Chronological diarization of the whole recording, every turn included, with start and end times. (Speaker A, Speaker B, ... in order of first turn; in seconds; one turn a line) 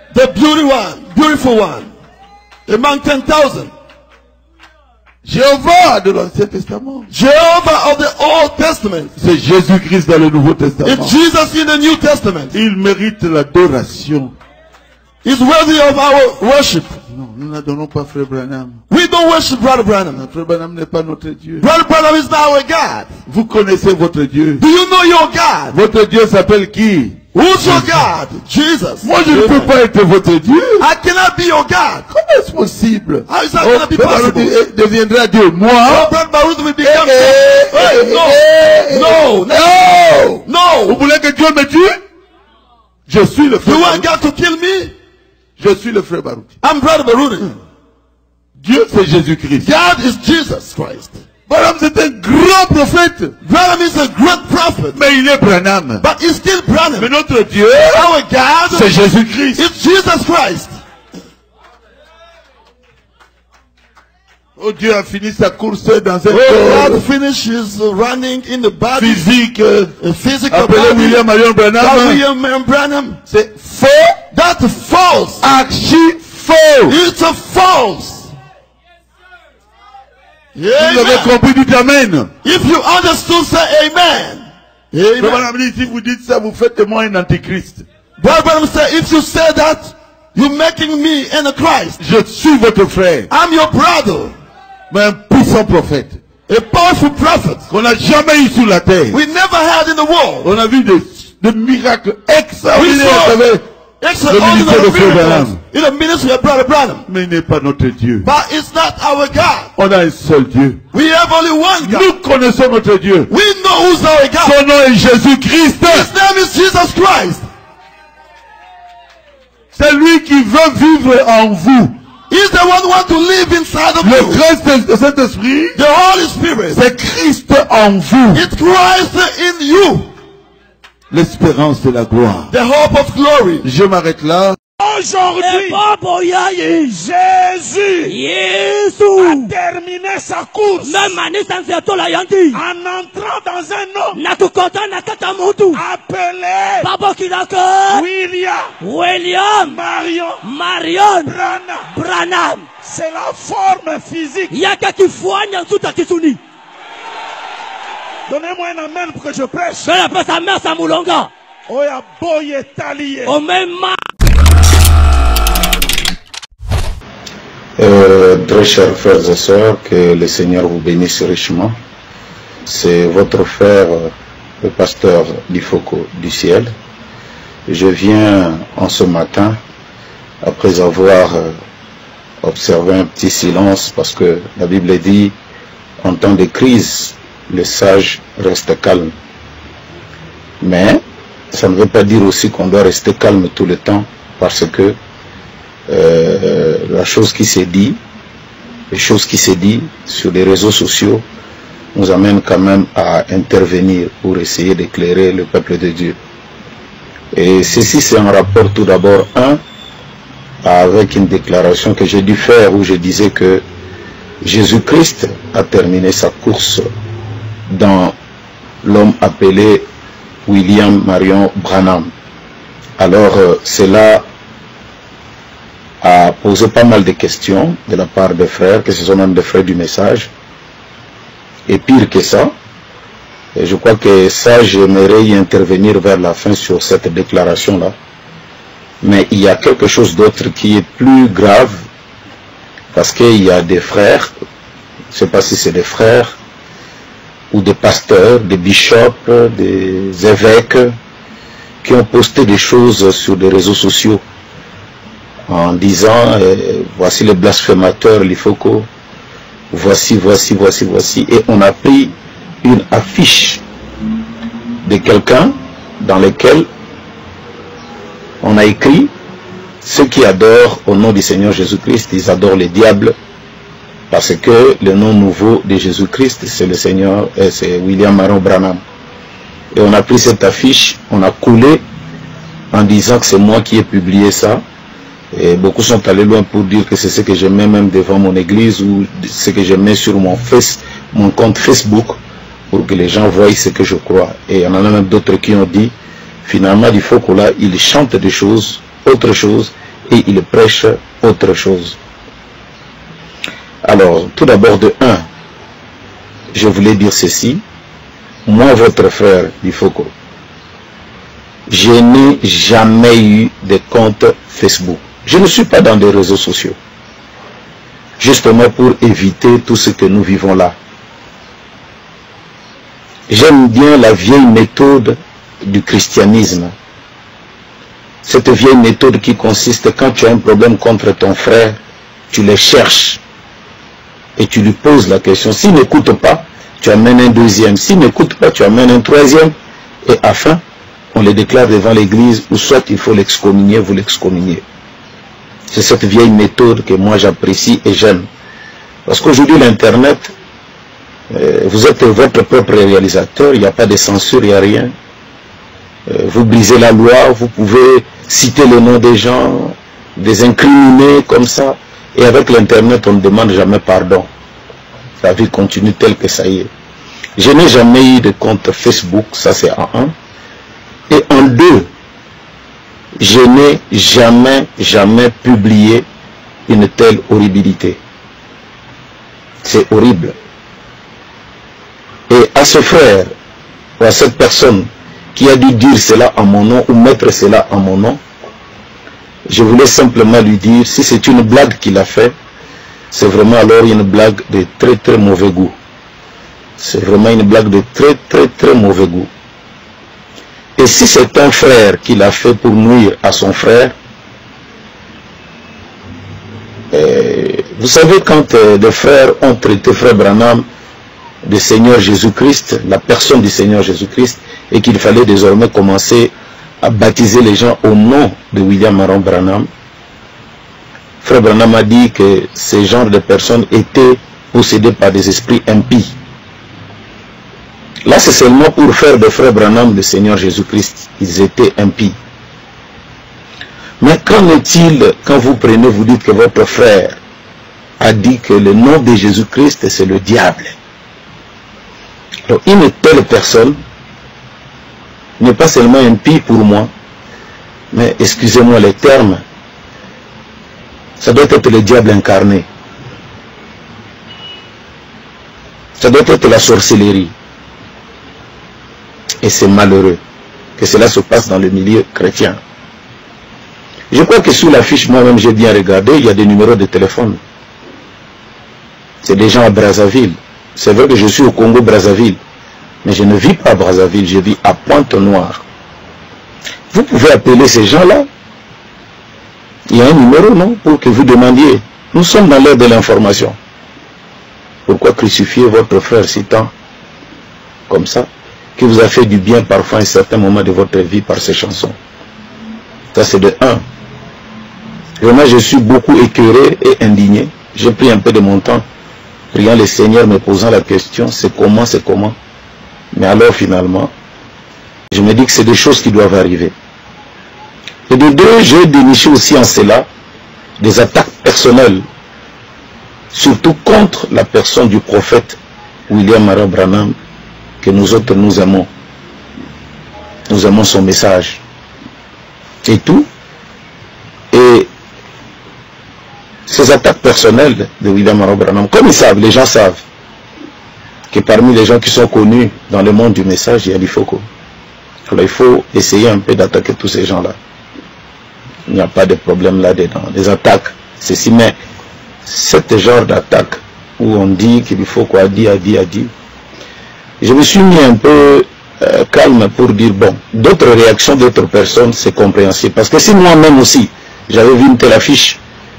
Speaker A: 0.1-1.9
Speaker A: 2.7-3.7
Speaker B: 5.2-7.1
Speaker A: 7.1-9.1
Speaker B: 9.2-11.2
Speaker A: 10.8-12.6
Speaker B: 12.5-14.3
Speaker A: 15.2-17.0
Speaker B: 17.1-18.8
Speaker A: 18.9-20.2
Speaker B: 20.2-21.7
Speaker A: 21.6-23.1
Speaker B: 23.3-24.6
Speaker A: 24.6-25.8
Speaker B: 25.7-27.9
Speaker A: 27.3-29.7
Speaker B: 29.0-30.9
Speaker A: 30.8-32.1
Speaker B: 32.1-36.1
Speaker A: 33.3-34.5
Speaker A: 35.9-41.0
Speaker B: 36.8-42.0
Speaker B: 43.1-44.1
Speaker A: 43.6-44.9
Speaker B: 45.6-46.5
Speaker A: 46.6-47.5
Speaker B: 48.6-49.7
Speaker A: 49.6-51.1
Speaker B: 51.5-53.4
Speaker A: 53.4-55.0
Speaker B: 54.9-56.1
Speaker A: 56.0-57.1
Speaker B: 57.0-58.2
Speaker A: 57.9-58.9
Speaker B: 58.7-59.6
Speaker A: 59.5-60.8
Speaker B: 64.6-67.1
Speaker A: 66.3-69.3
Speaker B: 68.9-70.0
Speaker A: 70.0-71.2
Speaker B: 70.5-72.2
Speaker A: 71.8-73.2
Speaker B: 73.3-74.2
Speaker A: 74.3-75.4
Speaker B: 75.4-77.0
Speaker A: 76.9-78.3
Speaker A: 80.6-81.3
Speaker B: 80.8-82.3
Speaker A: 82.4-85.4
Speaker B: 85.2-87.8
Speaker A: 88.2-92.0
Speaker B: 92.0-93.3
Speaker A: 93.3-94.3
Speaker B: 94.9-96.2
Speaker A: 96.5-97.7
Speaker B: 97.7-99.2
Speaker A: 99.1-100.5
Speaker B: 100.4-103.7
Speaker A: 102.7-103.4
Speaker A: 104.0-107.1
Speaker B: 104.3-105.6
Speaker B: 107.1-108.3
Speaker A: 108.2-109.7
Speaker B: 109.8-110.8
Speaker A: 110.9-112.1
Speaker B: 111.8-113.3
Speaker A: 113.3-114.6
Speaker B: 114.4-116.1
Speaker A: 115.8-117.5
Speaker B: 119.8-122.0
Speaker A: 122.3-124.4
Speaker B: 124.0-125.8
Speaker A: 125.8-126.8
Speaker B: 126.7-128.5
Speaker A: 128.3-130.1
Speaker B: 131.1-132.5
Speaker A: 132.5-133.7
Speaker B: 133.6-134.6
Speaker C: 134.8-135.8
Speaker D: 135.4-136.9
Speaker C: 136.9-138.2
Speaker D: 138.1-139.5
Speaker C: 139.2-141.2
Speaker D: 140.8-142.6
Speaker C: 142.5-144.2
Speaker D: 144.2-145.8
Speaker C: 145.7-146.9
Speaker D: 146.8-148.1
Speaker C: 147.9-148.8
Speaker D: 148.8-149.8
Speaker C: 149.6-150.4
Speaker D: 150.4-151.3
Speaker C: 151.2-151.9
Speaker D: 151.9-152.7
Speaker C: 152.8-154.6
Speaker D: 154.5-156.4
Speaker C: 158.3-160.0
Speaker D: 159.8-161.3
Speaker C: 161.7-163.4
Speaker D: 163.3-164.0
Speaker E: 167.8-171.8
Speaker E: 172.7-176.7
Speaker E: 177.7-179.6
Speaker E: 180.4-181.6
Speaker E: 182.4-185.3
Speaker E: 186.0-189.2
Speaker E: 190.6-195.0
Speaker E: 195.9-198.0
Speaker E: 198.9-201.2
Speaker E: 201.9-206.2
Speaker E: 207.3-209.6
Speaker E: 210.6-213.6
Speaker E: 214.4-216.9
Speaker E: 217.7-218.2
Speaker E: 218.8-219.9
Speaker E: 220.5-222.1
Speaker E: 223.0-224.2
Speaker E: 226.0-230.3
Speaker E: 231.7-232.5
Speaker E: 233.6-238.0
Speaker E: 239.0-241.8
Speaker E: 242.9-244.3
Speaker E: 245.1-246.4
Speaker E: 247.5-250.9
Speaker E: 251.8-254.2
Speaker E: 255.5-258.9
Speaker E: 259.7-263.6
Speaker E: 264.8-266.7
Speaker E: 268.4-269.1
Speaker E: 269.8-273.1
Speaker E: 274.1-278.8
Speaker E: 279.7-281.8
Speaker E: 282.7-284.6
Speaker E: 285.3-292.2
Speaker E: 292.7-295.9
Speaker E: 296.4-302.0
Speaker E: 303.8-305.2
Speaker E: 306.5-307.6
Speaker E: 308.5-310.1
Speaker E: 311.7-316.8
Speaker E: 318.2-320.8
Speaker E: 323.3-326.7
Speaker E: 328.2-331.8
Speaker E: 332.3-333.2
Speaker E: 334.4-339.5
Speaker E: 340.1-340.6
Speaker E: 341.1-344.6
Speaker E: 345.7-348.3
Speaker E: 349.1-350.3
Speaker E: 351.3-354.9
Speaker E: 356.1-364.3
Speaker E: 365.2-366.7
Speaker E: 367.4-370.1
Speaker E: 371.1-371.9
Speaker E: 373.2-376.1
Speaker E: 376.7-378.0
Speaker E: 379.6-380.4
Speaker E: 382.3-383.3
Speaker E: 384.0-388.2
Speaker E: 389.5-392.3
Speaker E: 393.1-395.8
Speaker E: 396.8-399.3
Speaker E: 400.8-403.9
Speaker E: 406.9-410.6
Speaker E: 411.4-419.7
Speaker E: 421.2-426.2
Speaker E: 428.1-432.2
Speaker E: 434.0-437.2
Speaker E: 438.0-440.8
Speaker E: 442.5-443.8
Speaker E: 445.4-446.9
Speaker E: 447.9-449.4
Speaker E: 451.2-452.7
Speaker E: 456.0-457.3
Speaker E: 459.4-460.2
Speaker E: 460.8-462.6
Speaker E: 464.1-467.4
Speaker E: 469.2-472.4
Speaker E: 473.0-475.6
Speaker E: 476.9-478.3
Speaker E: 479.9-483.6
Speaker E: 484.9-486.7
Speaker E: 487.9-492.0
Speaker E: 493.1-493.8
Speaker E: 495.2-498.9
Speaker E: 499.5-502.4
Speaker E: 503.1-504.1
Speaker E: 505.1-506.7
Speaker E: 508.1-510.1
Speaker E: 510.8-512.0
Speaker E: 513.3-517.2
Speaker E: 517.8-518.9
Speaker E: 520.5-521.6
Speaker E: 522.8-523.3
Speaker E: 524.5-524.9
Speaker E: 526.7-530.0
Speaker E: 531.3-534.5
Speaker E: 535.3-537.6
Speaker E: 538.9-541.8
Speaker E: 542.5-546.3
Speaker E: 547.4-555.6